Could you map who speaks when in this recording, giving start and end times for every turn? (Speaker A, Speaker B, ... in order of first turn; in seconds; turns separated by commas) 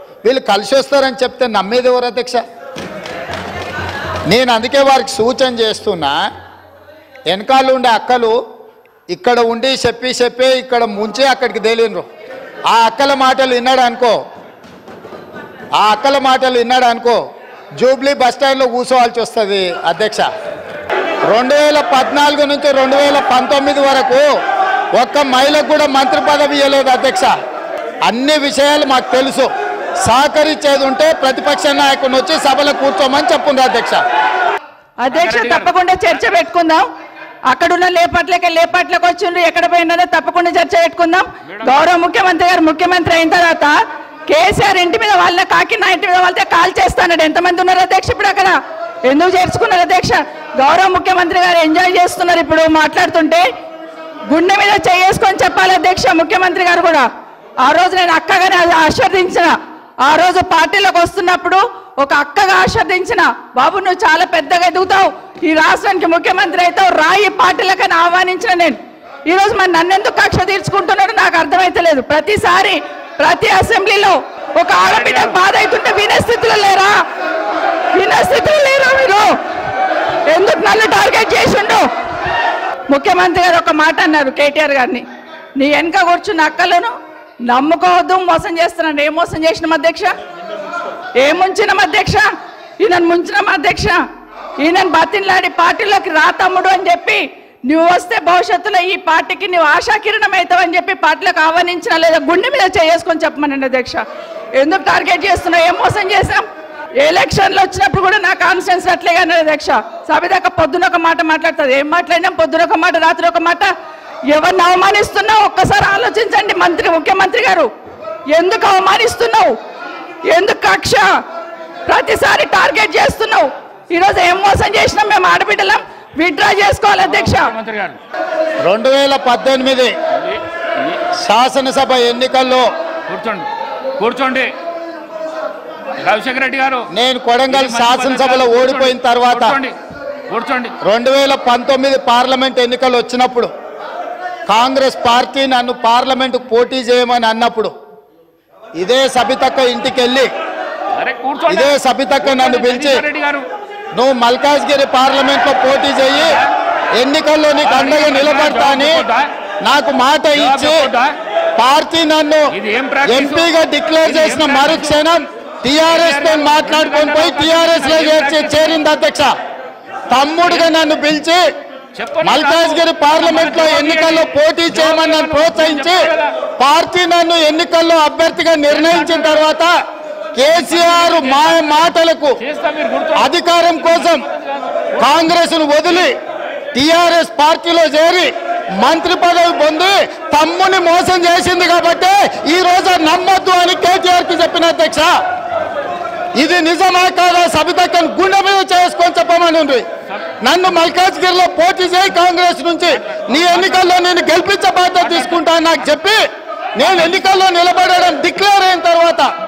Speaker A: 0.2-2.4, Speaker A: 4.3-6.2, Speaker A: 7.3-8.3, Speaker A: 9.1-12.1, Speaker A: 12.7-14.2, Speaker A: 15.8-17.2, Speaker A: 17.8-20.3, Speaker A: 21.3-24.2, Speaker A: 24.9-27.3, Speaker A: 28.1-29.5, Speaker A: 30.0-34.0, Speaker B: 35.0-36.9, Speaker C: 35.1-35.7, Speaker B: 37.5-43.8, Speaker C: 41.5-41.7, Speaker B: 44.3-48.5, Speaker B: 49.1-53.4, Speaker B: 54.3-57.0, Speaker B: 57.6-59.5, Speaker B: 60.1-76.9, Speaker C: 74.8-75.4, Speaker B: 78.0-79.3, Speaker B: 80.3-81.8, Speaker B: 82.9-85.0, Speaker B: 85.6-86.9, Speaker B: 87.5-90.1, Speaker B: 91.2-92.3, Speaker B: 92.8-94.0, Speaker B: 94.6-104.0, Speaker B: 104.6-106.5, Speaker B: 107.0-113.7, Speaker B: 114.3-117.7, Speaker B: 118.3-119.5, Speaker B: 120.3-121.1, Speaker B: 121.9-127.5, Speaker C: 127.0-128.0, Speaker A: 128.7-129.9, Speaker C: 130.2-131.0, Speaker A: 131.2-132.7, Speaker C: 133.1-134.5, Speaker C: 136.0-136.9, Speaker A: 136.9-139.6, Speaker C: 137.5-139.8, Speaker C: 140.3-140.8, Speaker A: 140.8-143.5, Speaker A: 144.5-147.7, Speaker A: 148.8-150.3, Speaker C: 150.9-153.4, Speaker A: 151.5-153.0, Speaker A: 153.9-156.4, Speaker C: 156.1-156.5, Speaker A: 157.0-159.1, Speaker C: 157.6-159.3, Speaker A: 159.6-160.9, Speaker C: 160.3-161.1, Speaker A: 161.6-162.5, Speaker C: 162.5-163.5, Speaker A: 163.1-169.3, Speaker C: 164.0-165.0, Speaker C: 165.9-168.8, Speaker A: 170.1-171.4, Speaker C: 170.4-170.7, Speaker C: 171.9-176.3, Speaker A: 172.2-179.7, Speaker C: 178.7-179.4, Speaker A: 180.4-182.4, Speaker C: 180.5-185.1, Speaker A: 183.2-184.3, Speaker A: 185.0-186.2, Speaker A: 186.7-195.1, Speaker A: 196.4-199.8, Speaker A: 200.4-206.2, Speaker C: 203.1-203.9, Speaker C: 205.0-205.4, Speaker A: 206.8-209.3, Speaker C: 206.8-207.1